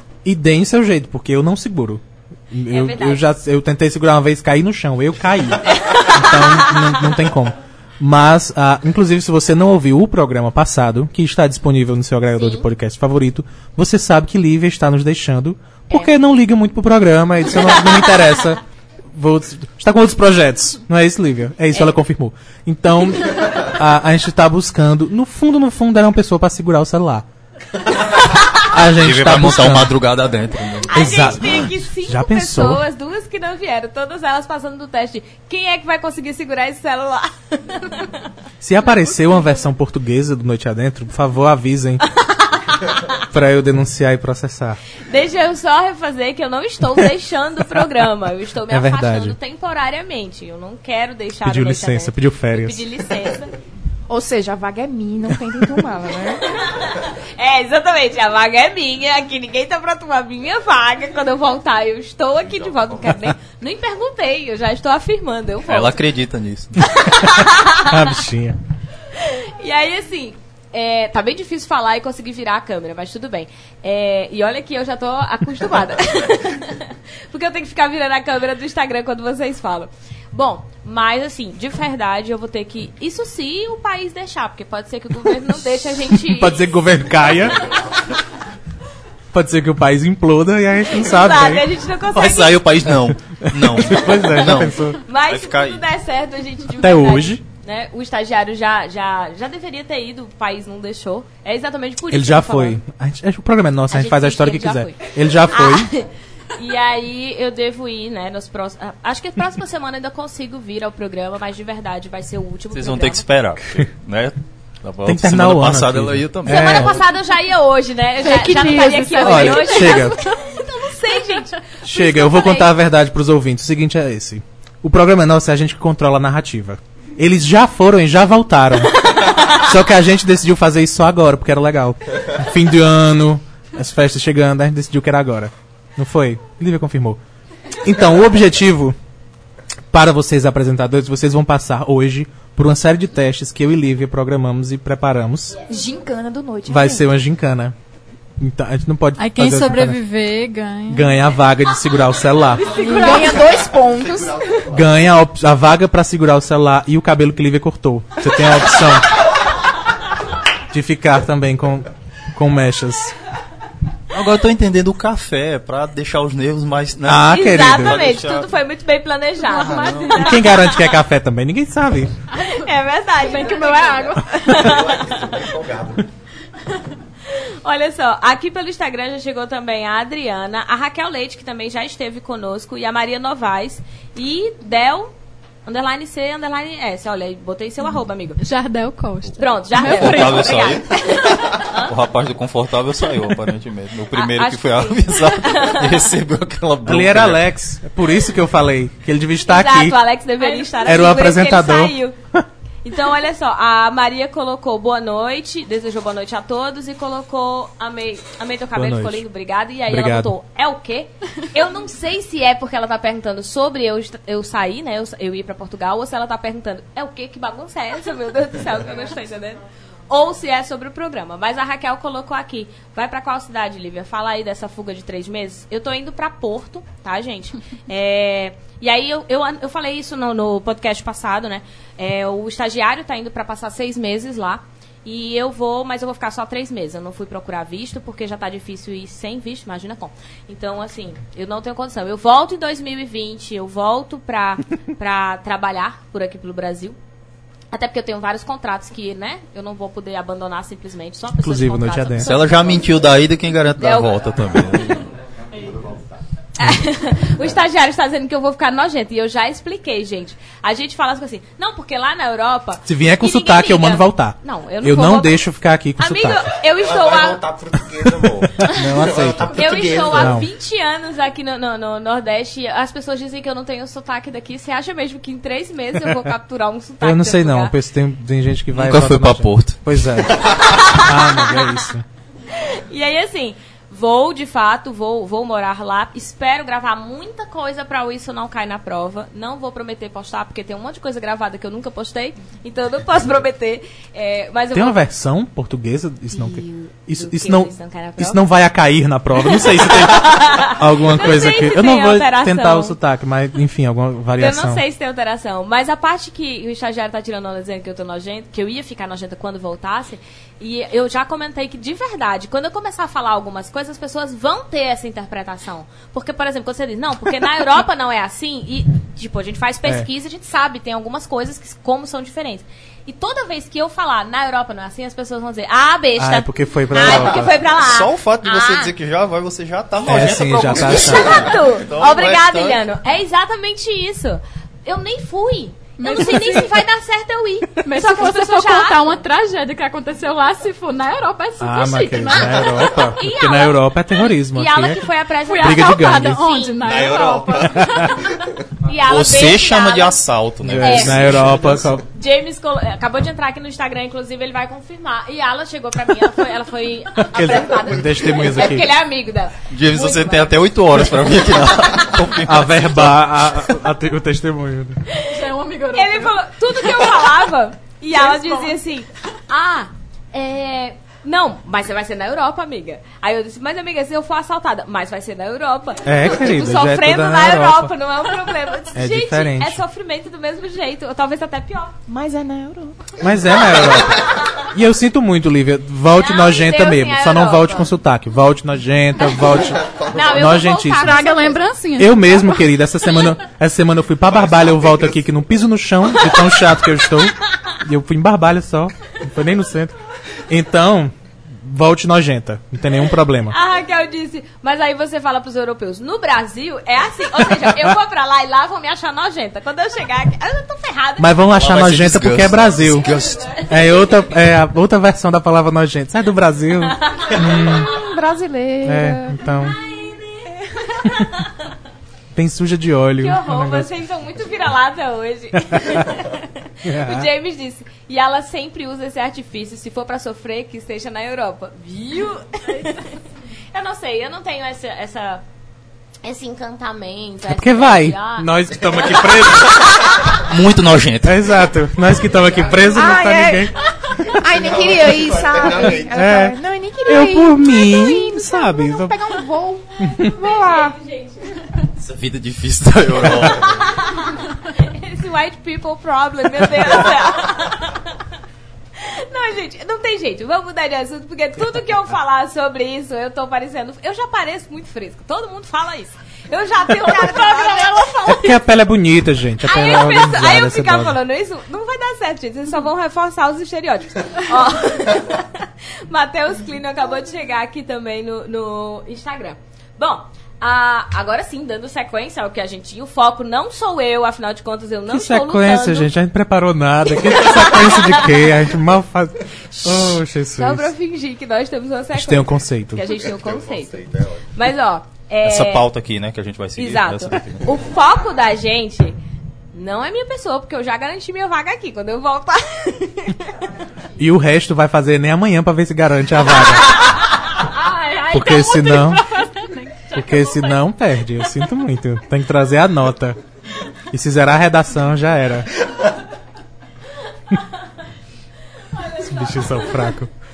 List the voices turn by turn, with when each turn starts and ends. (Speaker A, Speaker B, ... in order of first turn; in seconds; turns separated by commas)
Speaker A: 0.2-27.3, Speaker B: 2.7-3.3, Speaker B: 5.8-7.1, Speaker B: 12.4-12.7, Speaker A: 28.6-30.0, Speaker C: 28.8-31.3, Speaker B: 30.9-38.2, Speaker A: 30.9-32.8, Speaker A: 38.6-42.0, Speaker B: 42.2-43.2, Speaker A: 43.3-44.8, Speaker B: 45.1-53.5, Speaker A: 48.7-49.4, Speaker A: 51.4-52.9, Speaker D: 54.1-56.5, Speaker B: 56.5-66.0, Speaker E: 62.7-62.9, Speaker C: 65.7-66.9, Speaker B: 66.8-68.2, Speaker A: 67.8-68.6, Speaker B: 69.1-86.7, Speaker A: 86.1-87.7, Speaker A: 89.3-91.7, Speaker B: 91.0-92.7, Speaker C: 92.1-95.8, Speaker A: 93.4-95.0, Speaker B: 94.9-102.8, Speaker A: 96.8-97.4, Speaker A: 102.1-105.9, Speaker B: 103.9-113.2, Speaker C: 112.7-117.0, Speaker A: 115.0-117.0, Speaker B: 116.5-122.7, Speaker F: 118.2-120.2, Speaker A: 119.2-120.2, Speaker A: 121.8-137.2, Speaker A: 137.8-139.0, Speaker A: 139.9-145.6, Speaker D: 145.7-147.1, Speaker A: 146.7-147.8, Speaker A: 148.4-150.0, Speaker G: 149.2-151.2, Speaker A: 150.9-152.7, Speaker F: 152.6-153.4, Speaker D: 152.7-154.7, Speaker E: 153.8-155.0, Speaker A: 154.7-159.1, Speaker A: 160.7-163.2, Speaker C: 164.1-168.5, Speaker A: 167.1-168.0, Speaker B: 167.3-170.9, Speaker F: 169.4-170.5, Speaker C: 169.6-170.1, Speaker A: 170.1-172.1, Speaker F: 172.3-172.6, Speaker B: 172.5-175.2, Speaker F: 173.2-174.8, Speaker E: 174.6-176.1, Speaker B: 177.3-185.1, Speaker B: 185.7-188.4, Speaker F: 188.4-190.6, Speaker B: 189.4-191.9, Speaker C: 189.8-197.4, Speaker B: 194.1-196.1, Speaker A: 196.8-200.0, Speaker B: 199.5-202.2, Speaker F: 200.4-201.1, Speaker A: 200.8-202.4, Speaker B: 202.8-247.0, Speaker A: 208.8-209.2, Speaker A: 209.9-210.3, Speaker B: 247.7-252.9, Speaker A: 251.4-252.3, Speaker C: 252.2-255.1, Speaker B: 253.8-254.3, Speaker B: 256.6-265.4, Speaker A: 262.9-266.5, Speaker B: 266.0-267.4, Speaker E: 266.8-270.4, Speaker A: 268.6-269.5, Speaker B: 269.5-277.8, Speaker A: 270.1-270.5, Speaker A: 277.0-282.1, Speaker C: 278.7-279.8, Speaker B: 280.4-281.8, Speaker B: 282.5-295.0, Speaker A: 294.7-304.8, Speaker B: 296.3-298.4, Speaker B: 299.5-303.0, Speaker B: 304.4-328.9, Speaker A: 326.2-327.5, Speaker C: 327.0-332.8, Speaker A: 330.0-331.5, Speaker B: 330.8-339.2, Speaker F: 336.0-336.8, Speaker F: 337.8-342.9, Speaker A: 341.6-345.1, Speaker B: 342.8-346.9, Speaker F: 345.4-348.3, Speaker A: 345.6-346.4, Speaker E: 346.8-348.0, Speaker A: 347.8-348.1, Speaker B: 348.8-350.2, Speaker C: 349.0-351.9, Speaker A: 350.6-352.0, Speaker B: 350.8-351.3, Speaker B: 352.1-360.8, Speaker A: 357.2-358.9, Speaker C: 359.7-363.3, Speaker B: 361.4-362.2, Speaker A: 362.4-365.0, Speaker B: 365.1-365.4, Speaker F: 365.3-367.4, Speaker B: 365.9-382.0, Speaker F: 368.1-368.8, Speaker A: 376.0-377.9, Speaker A: 378.9-379.8, Speaker D: 382.1-383.2, Speaker A: 383.2-391.3, Speaker B: 384.1-384.6, Speaker B: 386.1-387.9, Speaker E: 389.4-390.5, Speaker B: 390.1-391.7, Speaker F: 390.9-393.3, Speaker A: 391.9-399.9, Speaker E: 394.3-395.1, Speaker A: 400.5-403.6, Speaker B: 403.5-411.6, Speaker A: 411.2-413.1, Speaker C: 411.5-413.6, Speaker B: 412.9-414.3, Speaker A: 413.7-417.9, Speaker B: 416.8-417.8, Speaker D: 417.8-419.4, Speaker A: 418.8-419.8, Speaker B: 419.6-421.7, Speaker A: 422.3-423.9, Speaker B: 423.2-433.2, Speaker A: 425.6-426.2, Speaker A: 426.8-427.3, Speaker F: 432.7-433.0, Speaker B: 433.7-435.4, Speaker B: 436.2-440.4, Speaker A: 437.5-440.1, Speaker C: 440.3-441.5, Speaker A: 441.2-443.8, Speaker E: 442.3-442.9, Speaker D: 442.9-451.0, Speaker E: 444.5-446.2, Speaker A: 446.1-449.2, Speaker A: 450.0-450.3, Speaker B: 450.1-451.8, Speaker C: 452.0-453.8, Speaker B: 453.4-458.2, Speaker B: 459.0-468.6, Speaker F: 466.9-468.5, Speaker A: 468.2-471.2, Speaker B: 469.6-486.1, Speaker A: 485.1-490.9, Speaker B: 487.2-488.4, Speaker B: 489.8-494.0, Speaker A: 492.1-493.1, Speaker E: 493.1-494.5, Speaker B: 494.5-495.9, Speaker C: 495.4-497.7, Speaker B: 496.8-499.2, Speaker B: 499.7-503.5, Speaker A: 504.2-506.9, Speaker F: 507.5-510.9, Speaker A: 508.3-509.2, Speaker A: 510.1-513.4, Speaker A: 514.1-515.7, Speaker B: 519.0-520.1, Speaker A: 519.2-520.3